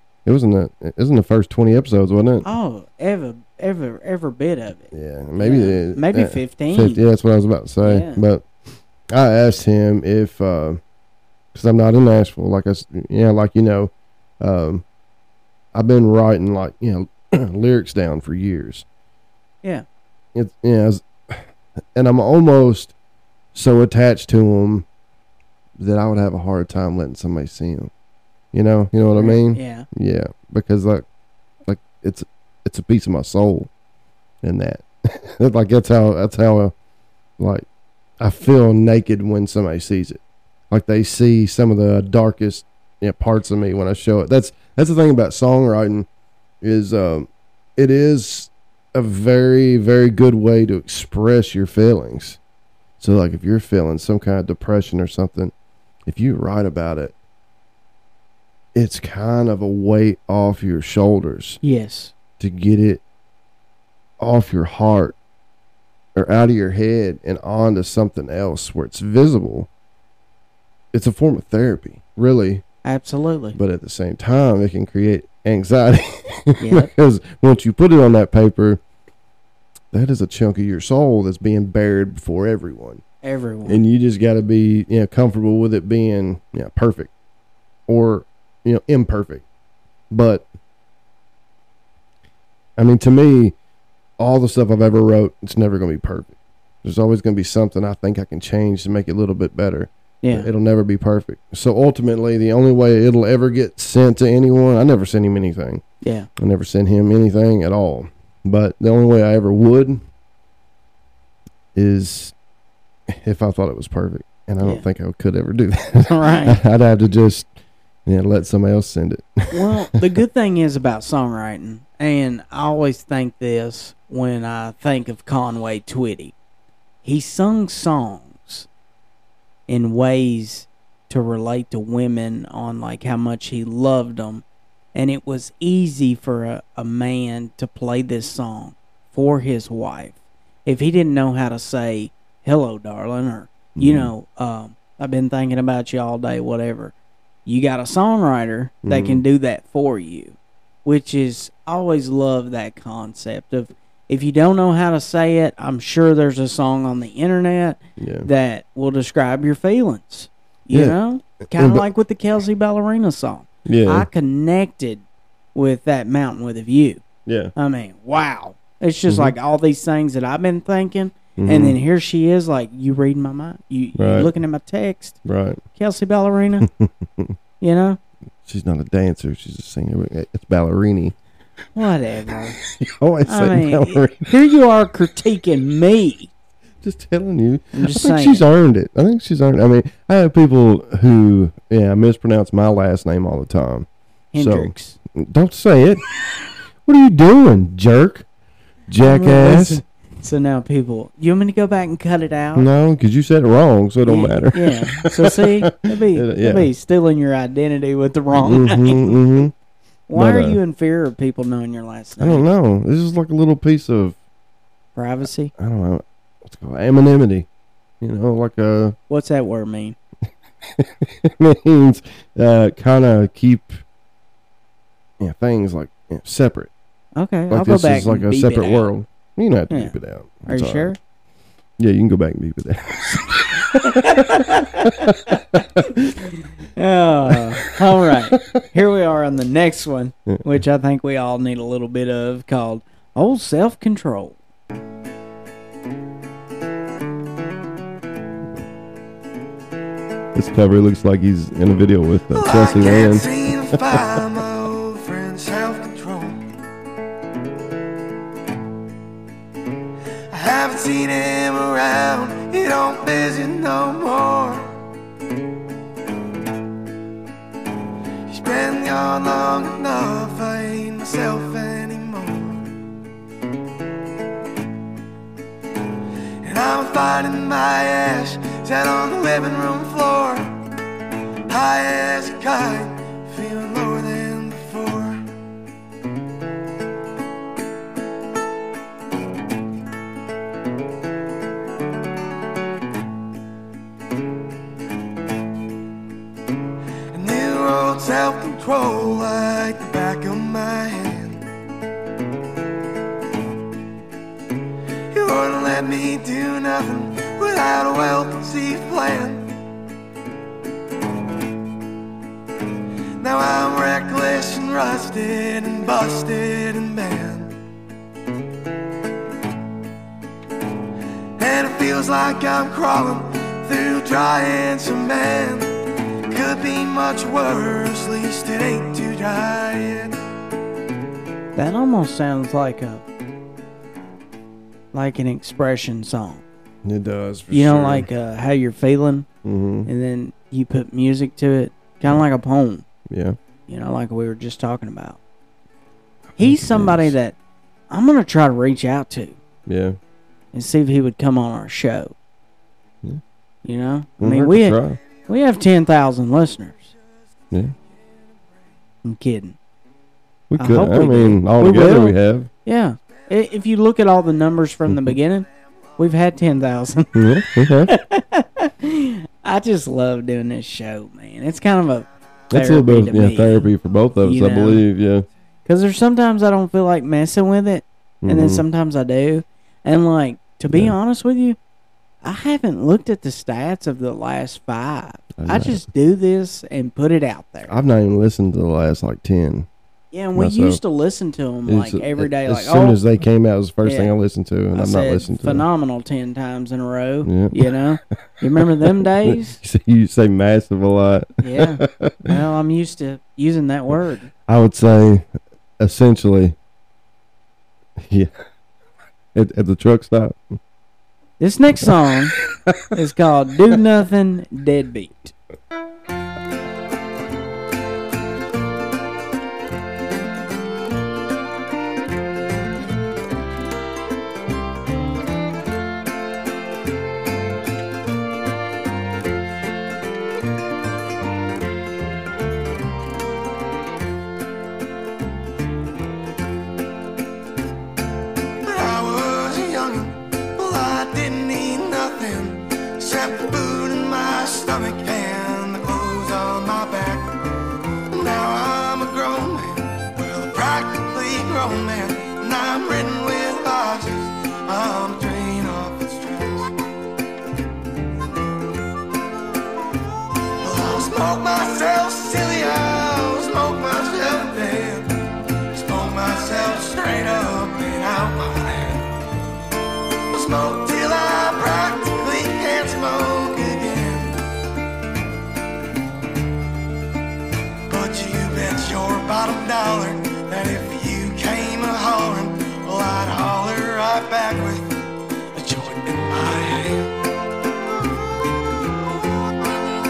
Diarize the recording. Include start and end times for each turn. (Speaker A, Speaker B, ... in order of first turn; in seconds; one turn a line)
Speaker A: 0.2-2.5
Speaker B: 2.4-7.0
Speaker A: 4.9-8.5
Speaker B: 7.8-8.2
Speaker A: 9.1-10.8
Speaker A: 11.5-14.8
Speaker A: 15.7-18.8
Speaker A: 20.3-22.9
Speaker A: 23.5-24.9
Speaker A: 25.8-27.9
Speaker A: 28.5-31.0
Speaker B: 29.1-29.9
Speaker A: 31.6-33.7
Speaker A: 34.4-36.7
Speaker A: 37.4-37.6
Speaker A: 38.2-46.1
Speaker A: 46.6-52.4
Speaker A: 53.0-55.5
Speaker A: 56.0-57.1
Speaker A: 58.7-61.6
Speaker B: 61.6-62.1
Speaker A: 62.4-63.0
Speaker A: 64.2-65.2
Speaker A: 66.1-69.7
Speaker A: 70.9-72.6
Speaker B: 72.8-73.6
Speaker A: 73.5-78.8
Speaker B: 76.6-76.9
Speaker A: 79.9-83.0
Speaker B: 83.2-83.8
Speaker A: 83.6-87.1
Speaker A: 87.9-89.4
Speaker A: 90.1-90.5
Speaker A: 92.8-93.5
Speaker A: 94.2-105.8
Speaker B: 100.2-100.5
Speaker B: 106.0-106.3
Speaker A: 106.4-110.0
Speaker A: 111.7-112.3
Speaker A: 113.1-117.5
Speaker B: 116.0-116.6
Speaker A: 118.0-119.8
Speaker B: 119.5-126.3
Speaker B: 127.0-128.7
Speaker B: 129.7-146.9
Speaker A: 143.8-144.1
Speaker B: 147.4-165.0
Speaker A: 148.8-149.2
Speaker A: 158.0-158.3
Speaker A: 160.7-161.8
Speaker A: 163.6-164.1
Speaker B: 165.5-167.0
Speaker A: 167.2-167.5
Speaker B: 167.5-175.2
Speaker A: 169.1-169.3
Speaker A: 171.4-171.8
Speaker A: 173.9-174.3
Speaker A: 175.2-175.6
Speaker B: 175.7-176.7
Speaker A: 176.6-177.3
Speaker B: 177.6-178.0
Speaker A: 178.4-181.2
Speaker B: 181.7-182.6
Speaker A: 182.6-184.3
Speaker B: 183.2-186.3
Speaker A: 186.8-196.0
Speaker B: 187.7-188.4
Speaker B: 194.3-195.0
Speaker A: 196.8-198.3
Speaker A: 198.9-199.8
Speaker B: 199.0-202.7
Speaker A: 202.6-206.7
Speaker B: 204.1-209.4
Speaker A: 208.3-209.5
Speaker B: 210.1-212.5
Speaker A: 210.1-210.6
Speaker A: 212.2-214.2
Speaker B: 214.9-215.5
Speaker A: 215.6-217.5
Speaker A: 218.0-219.0
Speaker B: 219.1-220.0
Speaker A: 220.7-223.8
Speaker A: 225.2-226.7
Speaker B: 227.2-228.9
Speaker A: 227.5-230.9
Speaker B: 230.4-231.0
Speaker A: 231.8-235.8
Speaker B: 233.7-244.4
Speaker A: 250.3-254.3
Speaker C: 252.3-256.5
Speaker C: 260.3-264.8
Speaker C: 268.3-272.7
Speaker C: 276.4-280.6
Speaker C: 281.5-285.2
Speaker C: 297.1-301.4
Speaker C: 305.1-309.5
Speaker C: 313.2-317.5
Speaker C: 321.4-325.8
Speaker C: 326.3-330.2
Speaker B: 331.5-333.0
Speaker B: 334.9-336.4
Speaker A: 336.8-338.1
Speaker B: 337.5-339.3
Speaker A: 339.4-339.9
Speaker B: 339.8-342.9
Speaker A: 343.1-343.4
Speaker B: 343.7-345.2
Speaker A: 346.4-347.1
Speaker B: 346.4-347.4
Speaker B: 347.9-349.4
Speaker A: 349.6-350.0
Speaker B: 350.5-352.1
Speaker B: 353.6-356.9
Speaker A: 354.2-355.0
Speaker B: 359.0-359.6
Speaker A: 360.5-362.5
Speaker B: 360.6-373.7
Speaker A: 364.9-365.2
Speaker A: 367.1-367.9
Speaker A: 372.5-375.3
Speaker B: 374.2-374.8
Speaker B: 375.6-381.6
Speaker A: 378.2-378.6
Speaker B: 382.2-387.7
Speaker A: 385.4-385.8
Speaker A: 387.7-389.7
Speaker B: 390.1-393.0
Speaker A: 390.3-390.8
Speaker A: 391.7-395.6
Speaker B: 393.8-394.1
Speaker B: 394.7-399.6
Speaker A: 397.2-397.7
Speaker A: 398.6-402.3
Speaker B: 401.4-404.3
Speaker A: 404.5-405.3
Speaker A: 405.8-406.6
Speaker A: 408.0-408.3
Speaker A: 409.3-410.5
Speaker B: 411.4-412.3
Speaker B: 412.9-415.3
Speaker C: 438.6-447.4
Speaker C: 448.1-456.7
Speaker C: 460.6-469.1
Speaker C: 470.3-474.4
Speaker C: 477.9-487.2